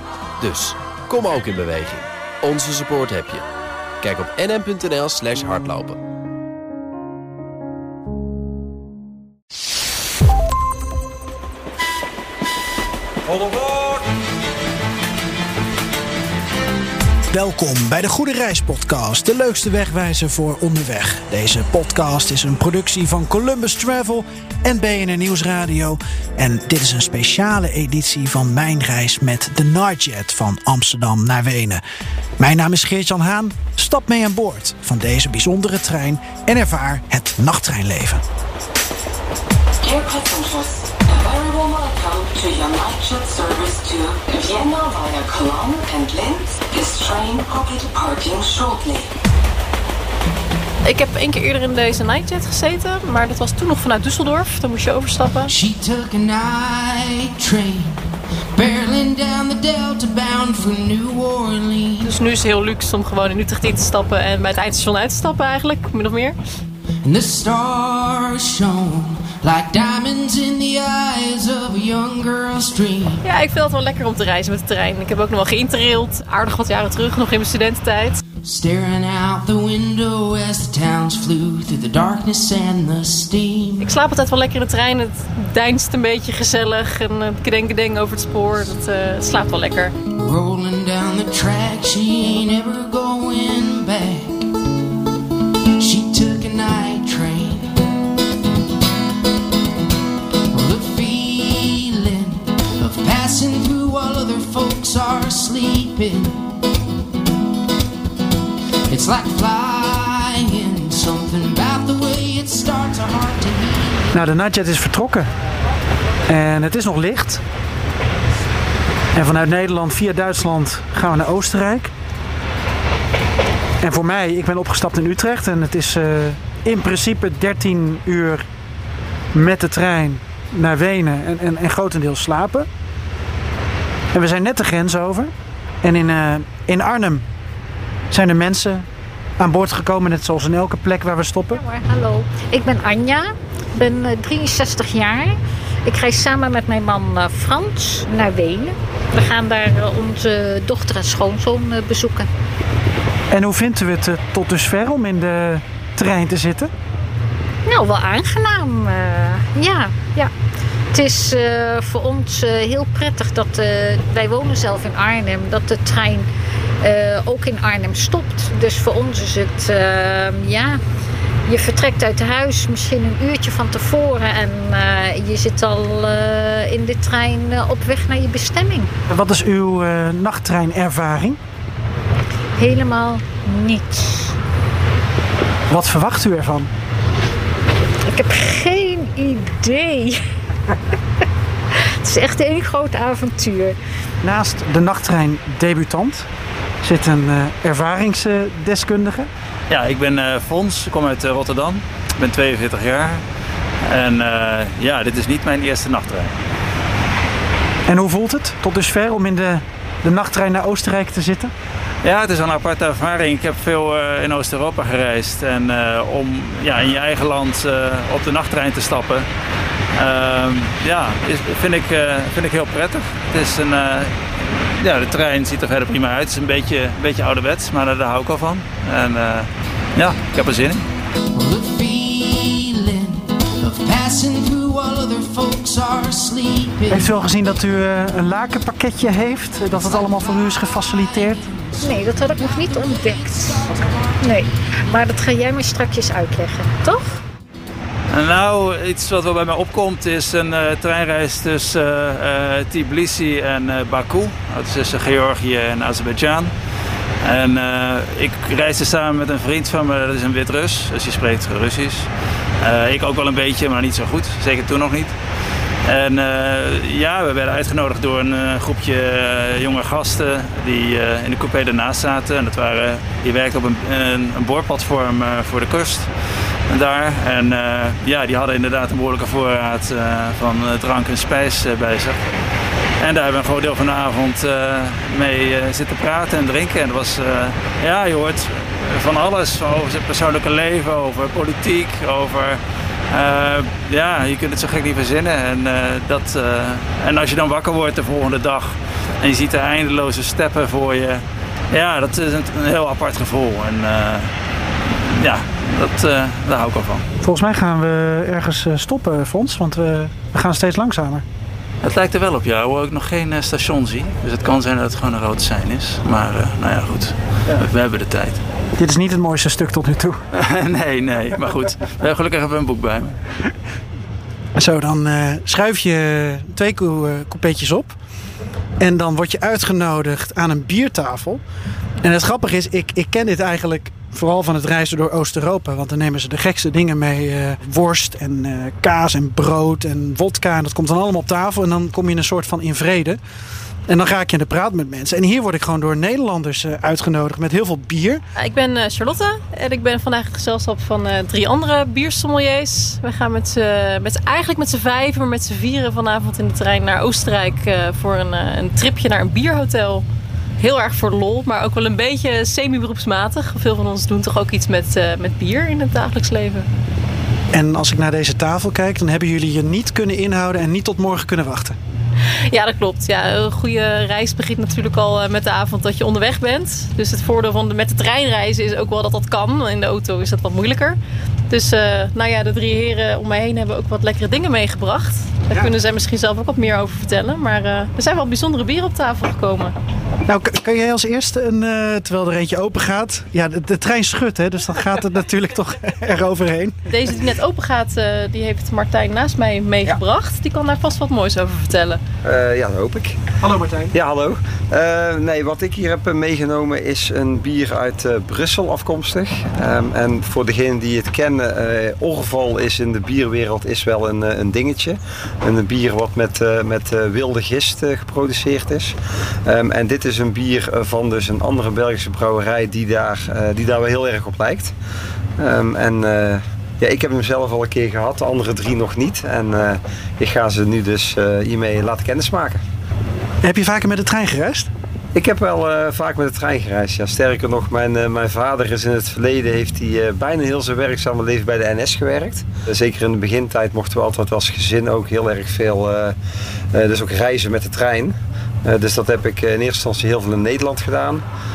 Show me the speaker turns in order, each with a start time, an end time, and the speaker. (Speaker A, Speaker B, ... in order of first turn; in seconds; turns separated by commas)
Speaker A: 0.4-3.4, Speaker A: 4.0-6.0, Speaker B: 13.4-13.7, Speaker B: 17.3-31.8, Speaker B: 32.4-38.2, Speaker C: 39.8-49.1, Speaker D: 50.8-55.5, Speaker E: 55.5-58.0, Speaker E: 58.5-62.1, Speaker D: 62.0-66.3, Speaker E: 67.0-73.2, Speaker D: 73.2-78.2, Speaker E: 78.4-83.9, Speaker D: 83.8-89.9, Speaker E: 90.2-94.4, Speaker E: 95.8-97.7, Speaker E: 100.5-106.4, Speaker E: 108.9-114.1, Speaker B: 114.1-115.3, Speaker B: 116.3-117.4, Speaker B: 119.1-121.9, Speaker B: 123.8-128.4, Speaker B: 129.3-132.7, Speaker B: 134.1-135.3, Speaker B: 135.8-137.2, Speaker B: 138.1-138.9, Speaker B: 139.4-141.6, Speaker F: 141.5-152.3, Speaker B: 153.3-156.7, Speaker F: 157.7-160.3, Speaker F: 160.9-166.3, Speaker F: 166.8-170.8, Speaker F: 171.5-178.9, Speaker B: 179.1-181.4, Speaker F: 182.6-184.3, Speaker B: 185.7-186.7, Speaker F: 188.1-190.7, Speaker F: 192.0-193.8, Speaker B: 194.2-196.3, Speaker B: 196.8-199.3, Speaker G: 199.7-203.2, Speaker G: 203.8-206.3, Speaker B: 207.9-211.5, Speaker G: 212.0-219.3, Speaker G: 219.9-224.1, Speaker G: 224.8-230.8, Speaker E: 231.3-237.1, Speaker B: 236.9-241.5, Speaker E: 239.7-244.4, Speaker F: 241.8-247.2, Speaker G: 248.1-256.5, Speaker G: 257.2-262.1, Speaker G: 262.6-265.1, Speaker G: 265.9-276.1, Speaker G: 276.7-282.2, Speaker G: 283.0-292.6, Speaker G: 293.1-304.3, Speaker G: 304.9-307.0, Speaker B: 307.2-311.2, Speaker G: 311.8-318.4, Speaker B: 318.8-320.2, Speaker G: 320.3-323.1, Speaker B: 324.6-328.0, Speaker B: 328.8-331.4, Speaker B: 332.0-343.2, Speaker B: 343.9-348.2, Speaker D: 348.4-360.1, Speaker D: 360.6-366.7, Speaker B: 367.5-371.8, Speaker D: 372.5-381.0, Speaker D: 381.5-389.7, Speaker B: 390.2-396.9, Speaker D: 396.9-402.0, Speaker H: 402.2-403.2, Speaker B: 403.4-403.9, Speaker H: 403.9-418.9, Speaker H: 419.4-424.7, Speaker H: 425.4-432.6, Speaker B: 433.4-434.7, Speaker H: 435.1-446.2, Speaker H: 446.7-451.2